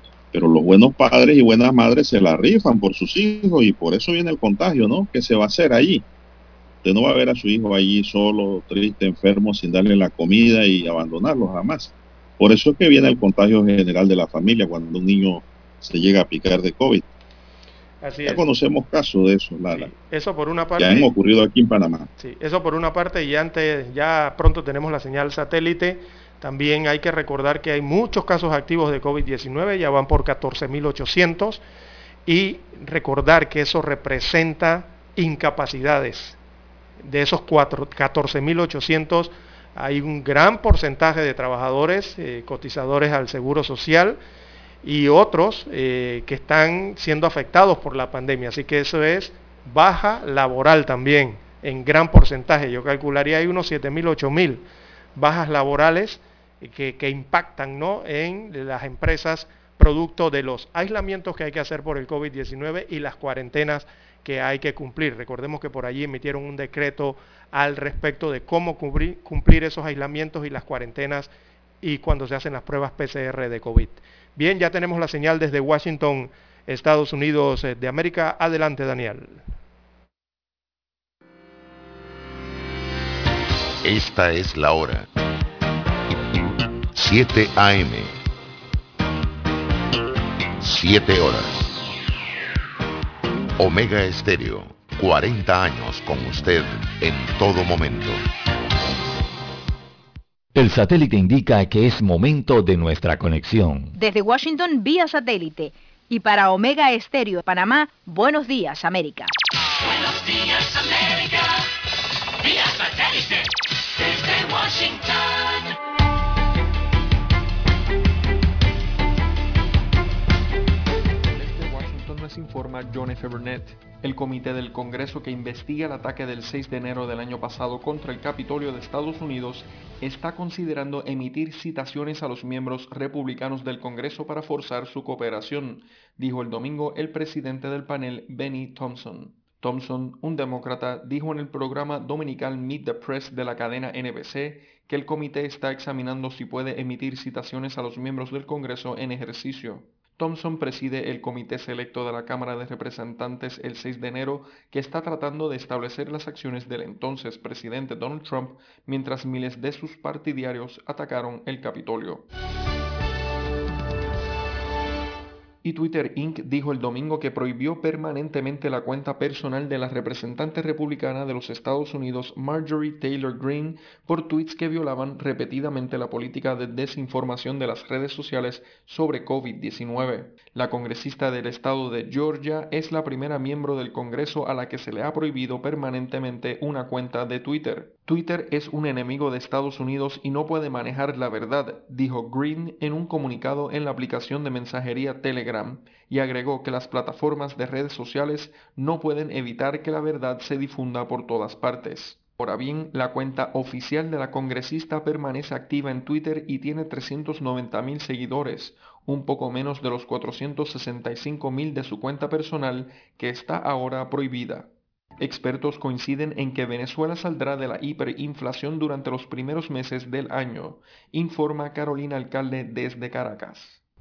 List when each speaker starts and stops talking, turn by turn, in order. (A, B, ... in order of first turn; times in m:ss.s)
0:00.3-0:06.0 A
0:06.8-0:17.0 A
0:18.0-0:18.4 B
0:18.2-0:19.9 A
0:19.7-0:21.1 B
0:20.8-0:22.1 A
0:22.2-0:31.6 B
0:32.2-0:36.4 B
0:37.0-0:44.2 B
0:44.8-0:54.6 B
0:55.2-1:11.3 B
1:11.8-1:19.4 B
1:23.8-1:25.1 C
1:26.9-1:28.1 C
1:30.6-1:31.8 C
1:33.6-1:38.2 C
1:40.5-1:44.0 D
1:44.0-1:49.3 E
1:50.0-1:51.3 F
1:52.4-1:53.4 F
1:54.0-1:55.1 F
2:01.3-2:42.3 G
2:45.6-3:43.8 G